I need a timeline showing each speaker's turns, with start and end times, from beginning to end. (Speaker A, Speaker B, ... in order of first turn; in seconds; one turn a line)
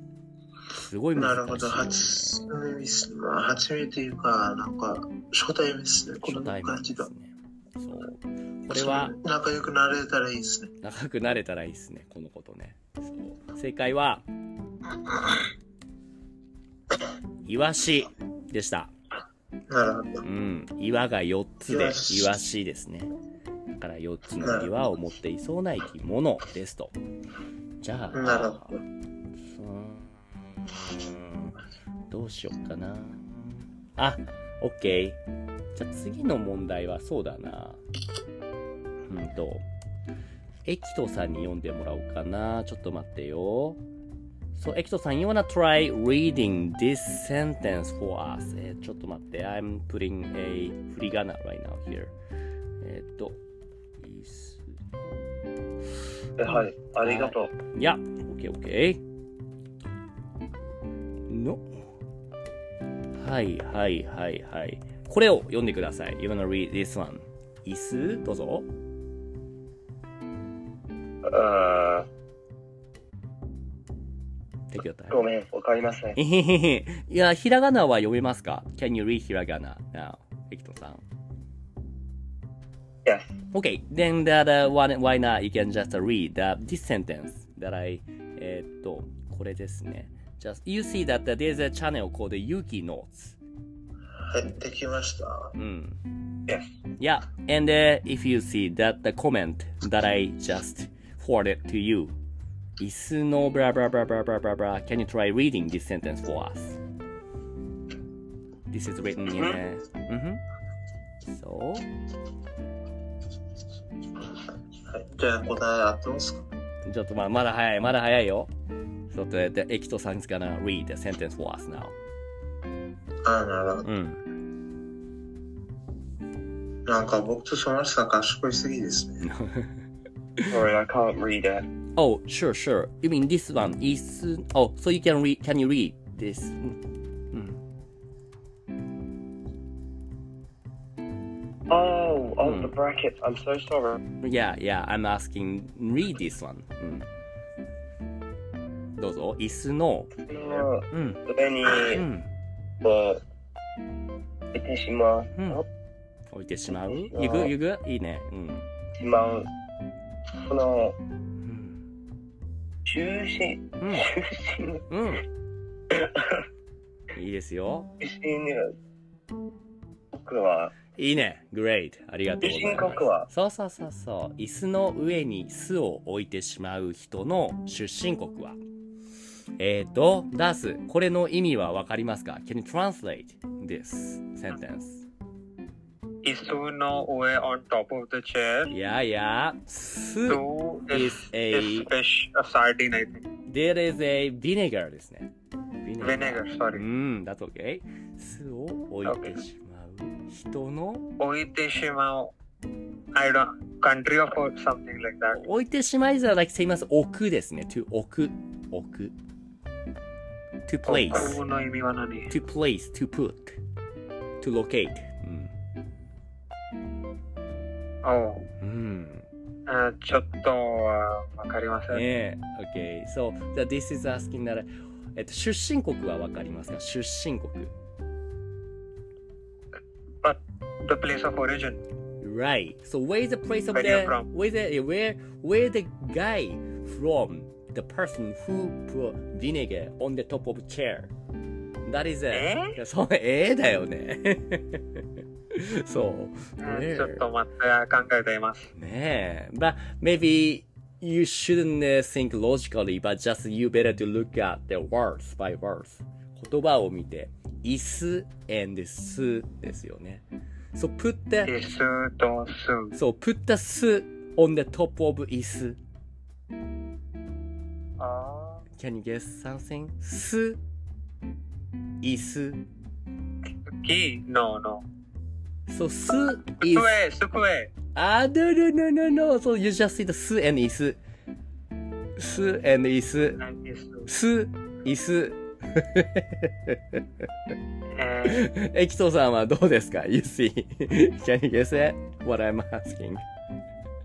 Speaker A: 0.7-2.6
Speaker B: 1.1-7.1
Speaker A: 6.1-9.2
Speaker B: 8.7-10.7
Speaker A: 10.8-14.2
Speaker A: 17.5-18.9
Speaker B: 19.7-20.2
Speaker A: 20.2-23.1
Speaker B: 21.7-22.4
Speaker A: 23.7-26.9
Speaker B: 24.4-24.7
Speaker A: 27.8-28.7
Speaker B: 28.1-28.8
Speaker A: 29.5-35.2
Speaker A: 35.8-37.8
Speaker A: 39.1-39.6
Speaker A: 40.7-43.8
Speaker A: 44.5-52.1
Speaker A: 52.8-53.4
Speaker A: 54.0-54.6
Speaker C: 56.4-57.5
Speaker A: 56.5-59.0
Speaker A: 61.3-61.8
Speaker A: 63.2-68.7
Speaker C: 71.2-72.1
Speaker A: 74.7-75.2
Speaker C: 75.1-76.2
Speaker A: 76.2-81.0
Speaker C: 83.0-83.3
Speaker A: 83.5-93.4
Speaker B: 94.3-95.5
Speaker A: 95.6-96.0
Speaker A: 97.0-102.2
Speaker A: 102.8-106.8
Speaker A: 108.7-110.4
Speaker C: 109.3-109.6
Speaker A: 111.2-111.9
Speaker B: 114.9-116.4
Speaker A: 116.8-118.5
Speaker A: 119.1-122.0
Speaker B: 123.2-123.9
Speaker A: 123.8-124.2
Speaker B: 126.9-129.2
Speaker A: 129.2-129.8
Speaker C: 130.5-131.7
Speaker A: 132.0-136.8
Speaker A: 137.3-137.6
Speaker C: 141.7-144.0
Speaker A: 142.4-142.8
Speaker A: 144.2-147.1
Speaker A: 149.0-151.2
Speaker C: 150.3-152.1
Speaker A: 151.9-152.3
Speaker C: 152.8-153.2
Speaker C: 154.5-155.7
Speaker A: 155.3-155.6
Speaker A: 156.3-158.7
Speaker C: 156.8-157.5
Speaker C: 159.0-159.5
Speaker C: 160.5-161.0
Speaker A: 161.4-161.8
Speaker C: 162.9-164.8
Speaker A: 163.8-164.1
Speaker A: 164.9-165.3
Speaker C: 165.9-166.4
Speaker A: 167.1-167.9
Speaker C: 168.0-168.8
Speaker C: 170.1-170.8
Speaker A: 171.0-178.6
Speaker C: 172.4-173.3
Speaker A: 179.6-185.1
Speaker D: 186.2-188.7
Speaker A: 188.7-191.9
Speaker D: 190.3-193.3
Speaker A: 193.5-195.3
Speaker A: 195.8-201.1
Speaker D: 196.0-196.8
Speaker D: 199.1-199.4
Speaker D: 201.2-202.3
Speaker D: 203.1-205.4
Speaker A: 205.3-209.1
Speaker A: 210.7-211.4
Speaker D: 210.9-212.3
Speaker A: 212.3-213.6
Speaker A: 214.4-215.5
Speaker D: 218.0-218.5
Speaker A: 218.6-219.3
Speaker D: 219.7-222.1
Speaker A: 221.9-227.7
Speaker D: 230.2-231.8
Speaker A: 232.2-241.1
Speaker D: 233.7-234.3
Speaker A: 241.9-247.2
Speaker D: 242.3-242.8
Speaker D: 246.6-248.7
Speaker A: 248.8-261.5
Speaker D: 261.4-263.0
Speaker A: 262.9-265.8
Speaker D: 268.0-268.6
Speaker A: 268.8-270.6
Speaker A: 272.0-272.6
Speaker D: 273.7-274.9
Speaker A: 275.7-276.9
Speaker D: 276.6-277.7
Speaker A: 277.9-281.0
Speaker A: 282.2-283.4
Speaker D: 283.4-284.1
Speaker A: 284.1-287.0
Speaker D: 287.9-288.5
Speaker A: 288.2-293.2